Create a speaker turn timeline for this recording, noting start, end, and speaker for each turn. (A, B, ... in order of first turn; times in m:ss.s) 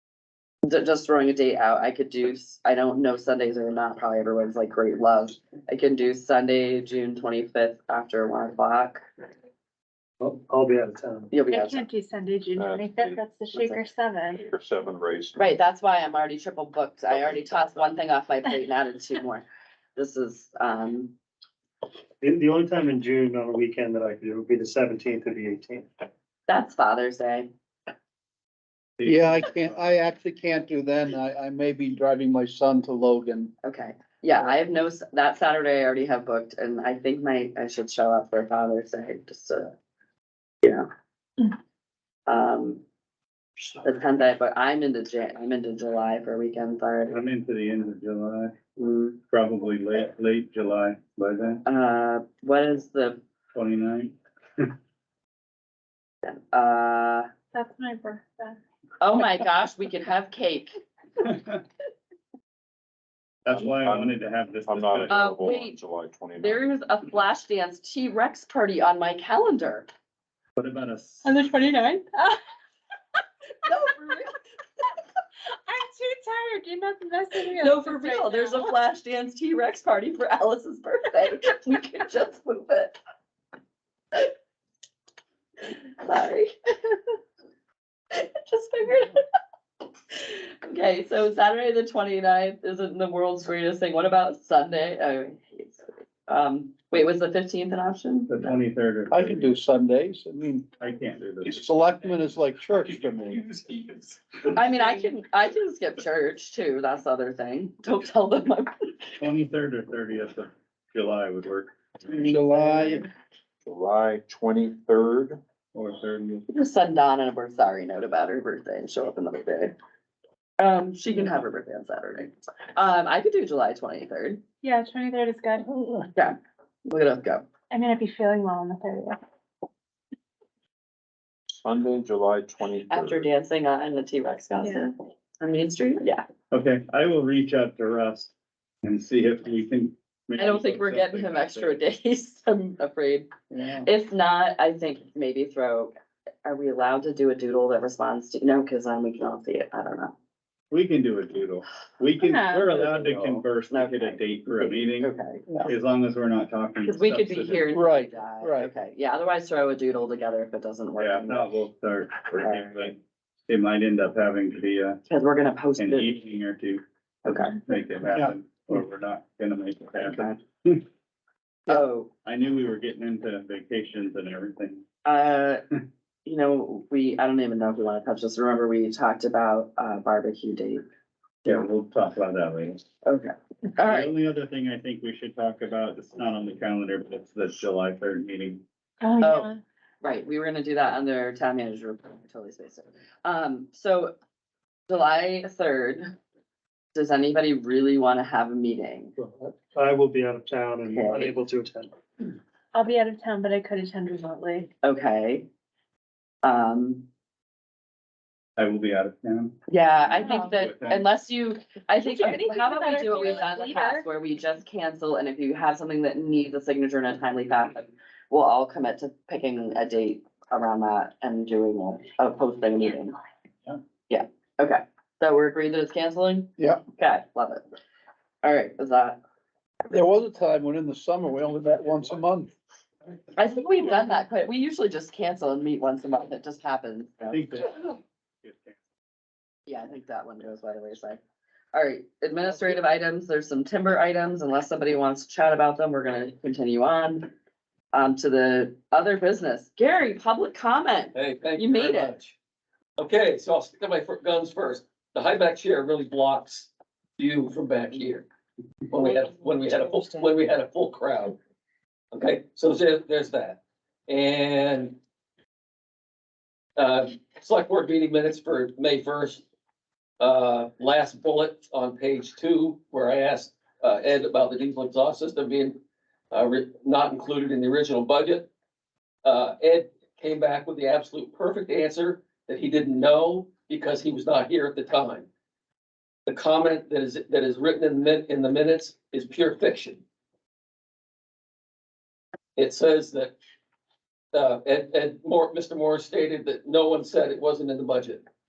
0:00.6-0:09.0 A
0:10.2-0:11.4 B
0:11.3-0:11.8 A
0:11.4-0:14.5 C
0:12.6-0:13.7 D
0:14.4-0:15.4 D
0:15.4-0:19.4 A
0:20.0-0:21.1 A
0:22.2-0:25.9 B
0:26.5-0:27.5 A
0:29.0-0:29.8 E
0:29.1-0:33.5 F
0:33.6-0:39.7 A
0:42.3-0:42.8 A
0:43.8-0:47.2 A
0:47.1-0:48.5 E
0:48.8-0:49.2 A
0:49.3-0:51.6 E
0:51.7-0:53.2 A
0:53.5-0:54.7 E
0:56.2-0:57.3 A
0:57.5-0:58.6 C
0:59.0-1:00.8 A
1:01.2-1:01.6 E
1:03.4-1:05.4 E
1:03.5-1:06.6 D
1:05.1-1:05.8 A
1:06.4-1:09.9 A
1:10.6-1:11.3 E
1:11.2-1:12.4 C
1:13.6-1:14.4 A
1:15.7-1:18.7 C
1:17.6-1:23.0 A
1:25.6-1:27.0 A
1:28.1-1:29.2 A
1:30.1-1:38.5 A
1:38.3-1:39.6 E
1:39.1-1:40.7 F
1:40.8-1:41.7 E
1:41.4-1:43.6 F
1:44.5-1:49.1 A
1:49.2-1:52.4 E
1:52.1-1:53.0 F
1:53.7-1:55.4 D
1:55.7-1:56.5 E
1:56.5-1:59.8 A
2:00.6-2:04.4 A
2:04.6-2:06.1 C
2:06.9-2:07.4 A
2:07.7-2:09.2 C
2:11.5-2:13.3 D
2:12.9-2:16.2 A
2:14.6-2:14.9 C
2:16.5-2:18.3 E
2:18.8-2:21.8 E
2:20.4-2:23.3 A
2:23.5-2:23.9 E
2:23.8-2:25.9 A
2:26.4-2:30.2 A
2:30.7-2:35.1 E
2:32.2-2:32.7 C
2:32.9-2:35.6 A
2:35.6-2:37.7 E
2:36.8-2:41.5 A
2:37.7-2:38.7 F
2:41.0-2:45.0 E
2:42.4-2:42.7 A
2:45.1-2:46.1 A
2:45.8-2:50.8 E
2:47.3-2:47.6 A
2:50.0-2:50.4 A
2:51.7-2:52.1 A
2:52.2-2:54.8 E
2:55.0-2:55.6 A
2:56.2-3:00.8 A
3:01.4-3:02.8 E
3:03.0-3:04.1 A
3:03.9-3:08.6 E
3:09.0-3:09.6 C
3:09.2-3:09.5 A
3:10.0-3:14.2 A
3:14.9-3:16.1 A
3:17.0-3:19.1 A
3:19.2-3:21.9 B
3:20.9-3:21.3 A
3:22.7-3:24.7 C
3:24.8-3:25.5 A
3:26.4-3:27.1 A
3:28.6-3:29.6 E
3:29.7-3:43.2 A
3:30.2-3:30.6 C
3:30.4-3:31.0 E
3:32.0-3:34.0 C
3:44.1-3:47.6 A
3:48.4-3:49.2 A
3:49.9-3:52.5 F
3:53.4-3:57.6 A
3:57.3-3:58.8 E
3:59.7-4:01.2 A
4:01.7-4:07.3 A
4:07.9-4:12.2 A
4:11.1-4:12.4 G
4:13.0-4:18.3 G
4:18.9-4:21.4 G
4:22.1-4:25.0 G
4:26.8-4:29.4 G
4:30.2-4:35.8 G
4:36.3-4:38.5 G
4:39.2-4:45.3 G
4:46.3-4:50.0 G
4:52.6-4:53.4 G
4:54.3-4:58.2 G